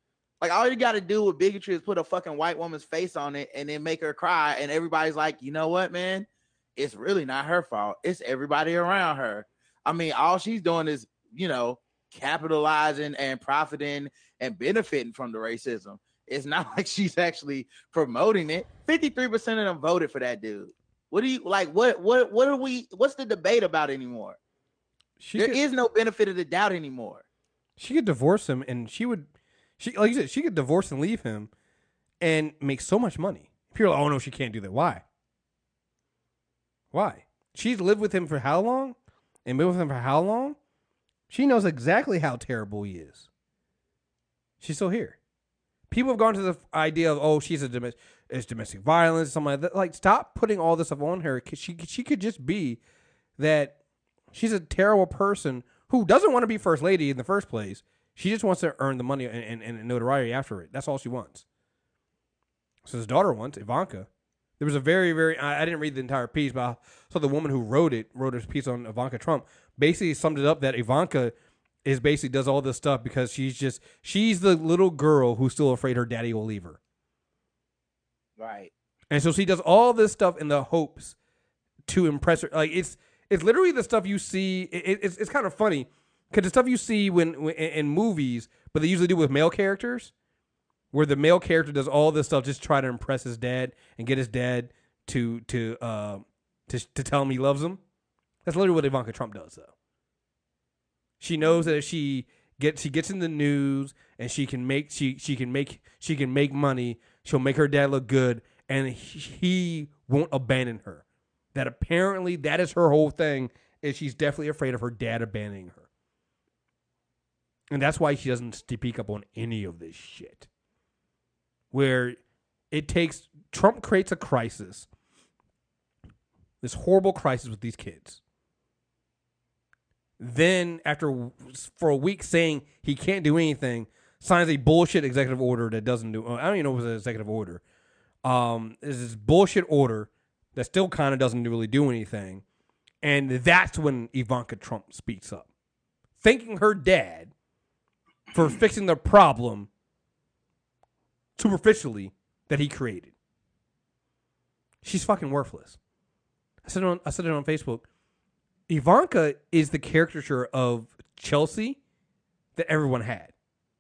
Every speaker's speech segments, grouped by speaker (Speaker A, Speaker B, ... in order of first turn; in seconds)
Speaker A: 0.4-24.4, 25.4-27.2, 78.4-78.7, 101.4-101.7
Speaker B: 25.2-25.6, 27.8-29.3, 29.8-31.5, 32.2-35.0, 36.9-40.6, 41.3-43.3, 44.6-45.2, 45.9-52.8, 53.4-53.8, 54.3-61.4, 62.9-64.1, 64.6-71.3, 71.8-76.8, 79.1-81.2, 81.9-90.1, 90.9-97.8, 98.5-99.7, 101.2-111.0, 111.5-115.9, 117.7-120.5, 121.7-122.2, 122.7-124.9, 126.6-128.2, 130.2-137.6, 138.2-142.4, 143.0-145.5, 146.2-147.3, 148.3-149.7, 151.4-153.1, 154.8-155.8, 156.7-157.8, 158.7-161.8, 162.6-163.3